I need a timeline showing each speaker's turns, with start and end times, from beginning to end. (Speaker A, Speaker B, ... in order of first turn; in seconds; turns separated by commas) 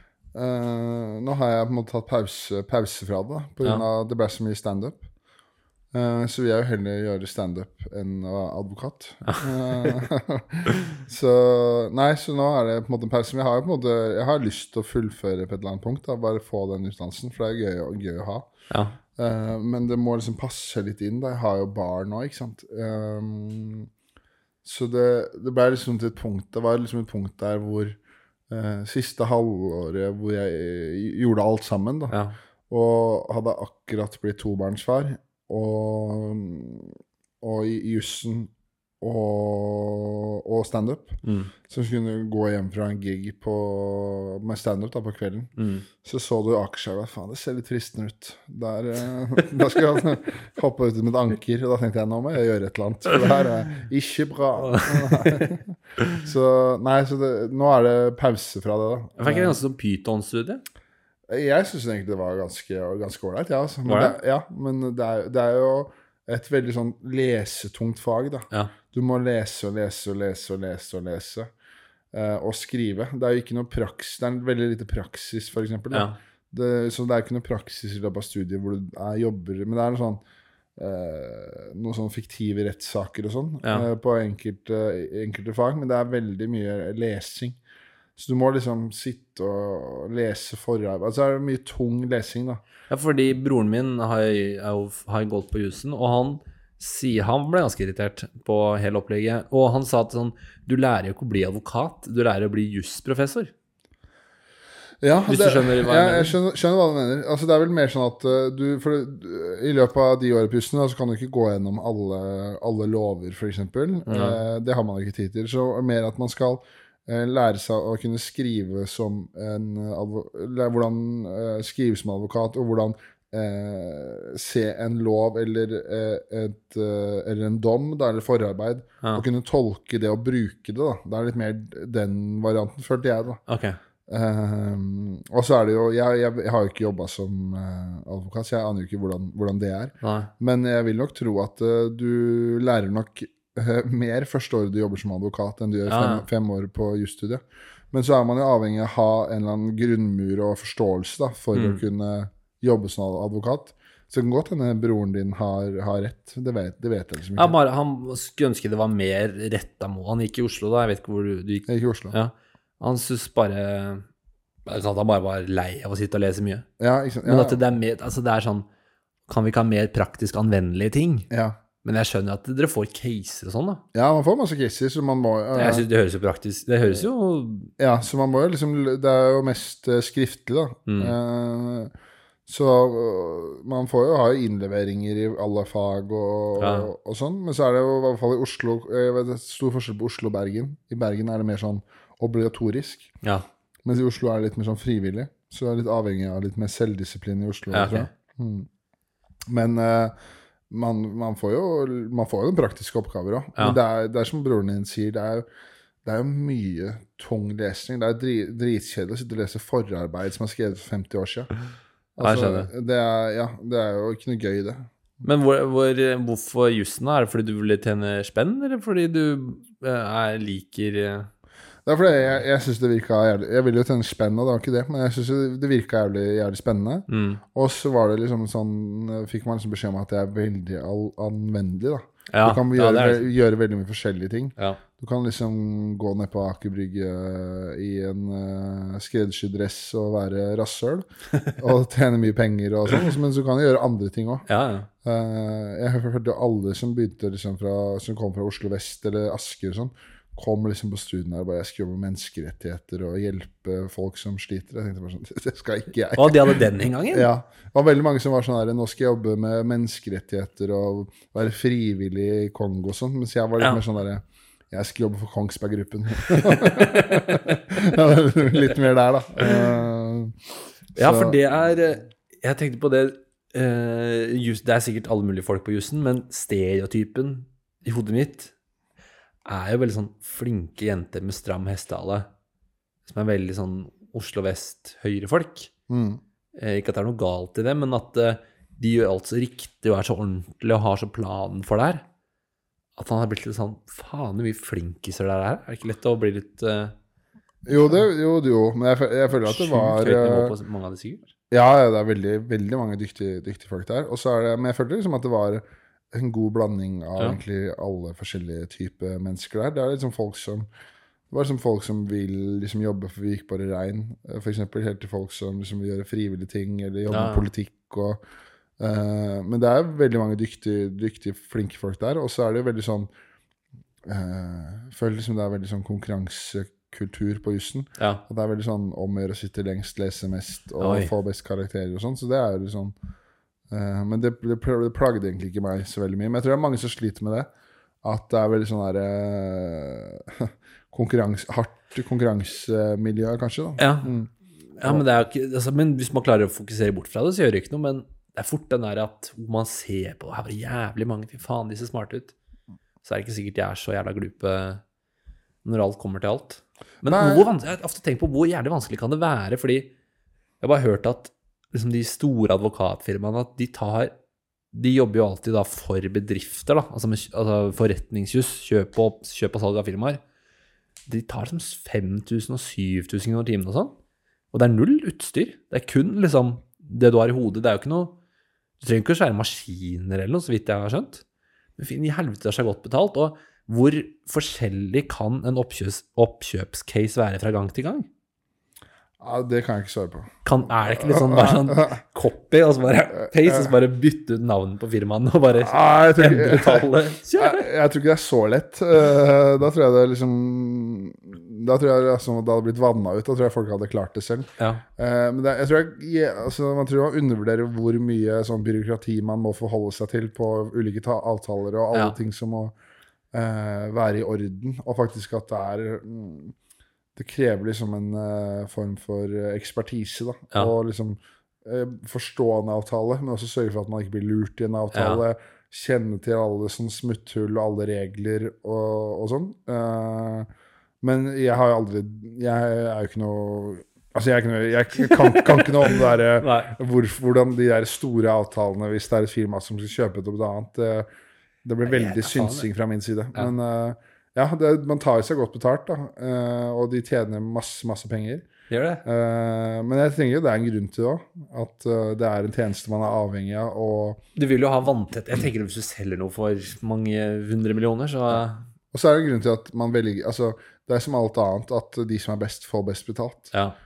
Speaker A: 0.3-5.0, Speaker A: 5.9-18.5, Speaker B: 9.2-10.0, Speaker B: 18.7-19.0, Speaker A: 19.1-23.9, Speaker A: 24.6-28.0, Speaker A: 28.5-32.1, Speaker B: 32.1-32.4, Speaker A: 32.7-59.6, Speaker B: 41.2-41.5, Speaker B: 45.6-45.9, Speaker B: 54.6-55.5, Speaker B: 59.2-60.6, Speaker A: 61.3-71.5, Speaker B: 63.9-64.1, Speaker A: 72.1-80.2, Speaker B: 75.9-76.2, Speaker A: 80.8-87.6, Speaker B: 83.6-83.9, Speaker A: 88.2-92.6, Speaker B: 92.9-103.5, Speaker A: 105.0-133.4, Speaker B: 105.3-106.3, Speaker B: 114.1-114.4, Speaker B: 133.5-133.8, Speaker A: 134.1-157.6, Speaker B: 140.0-140.3, Speaker B: 145.9-146.2, Speaker B: 151.5-151.8, Speaker B: 157.3-164.1, Speaker A: 161.7-162.1, Speaker B: 164.7-166.7, Speaker A: 166.8-167.6, Speaker B: 167.2-168.7, Speaker B: 169.3-171.3, Speaker A: 171.3-171.6, Speaker B: 171.8-173.8, Speaker A: 173.9-175.8, Speaker B: 175.5-177.7, Speaker A: 177.8-181.9, Speaker B: 180.9-181.1, Speaker A: 182.5-193.1, Speaker B: 186.6-186.9, Speaker A: 193.8-198.7, Speaker B: 197.7-198.1, Speaker A: 199.5-200.1, Speaker A: 200.7-205.4, Speaker A: 206.0-211.5, Speaker A: 212.2-214.9, Speaker B: 212.2-212.7, Speaker B: 215.2-221.3, Speaker A: 221.8-244.4, Speaker B: 227.1-227.4, Speaker B: 232.3-233.3, Speaker B: 244.5-244.9, Speaker A: 245.0-270.3, Speaker B: 256.1-257.3, Speaker B: 266.4-267.6, Speaker A: 270.9-271.4, Speaker B: 271.0-278.5, Speaker B: 279.4-282.3, Speaker B: 283.1-285.7, Speaker A: 285.9-286.2, Speaker B: 286.5-292.0, Speaker B: 293.0-296.9, Speaker A: 297.6-300.5, Speaker B: 299.4-301.3, Speaker A: 301.5-310.7, Speaker A: 311.3-318.2, Speaker B: 317.1-317.5, Speaker A: 318.8-323.1, Speaker A: 324.0-332.9, Speaker B: 328.0-328.2, Speaker B: 330.8-331.1, Speaker A: 333.7-337.5, Speaker A: 338.0-345.0, Speaker B: 343.8-344.1, Speaker B: 344.8-352.3, Speaker B: 353.0-354.8, Speaker B: 355.6-359.9, Speaker A: 357.0-357.5, Speaker B: 360.6-364.1, Speaker B: 364.7-370.2, Speaker B: 371.1-373.9, Speaker B: 374.5-378.1, Speaker B: 378.8-381.2, Speaker B: 381.8-388.1, Speaker A: 389.2-392.0, Speaker B: 390.4-397.6, Speaker A: 393.2-393.7, Speaker A: 395.6-412.7, Speaker B: 404.6-404.8, Speaker A: 413.3-416.5, Speaker A: 417.1-430.5, Speaker B: 424.9-425.2, Speaker A: 431.0-441.1, Speaker B: 435.3-436.7, Speaker A: 441.6-448.5, Speaker B: 441.8-442.7, Speaker B: 448.7-449.0, Speaker A: 449.0-454.2, Speaker B: 454.4-458.6, Speaker A: 458.9-463.5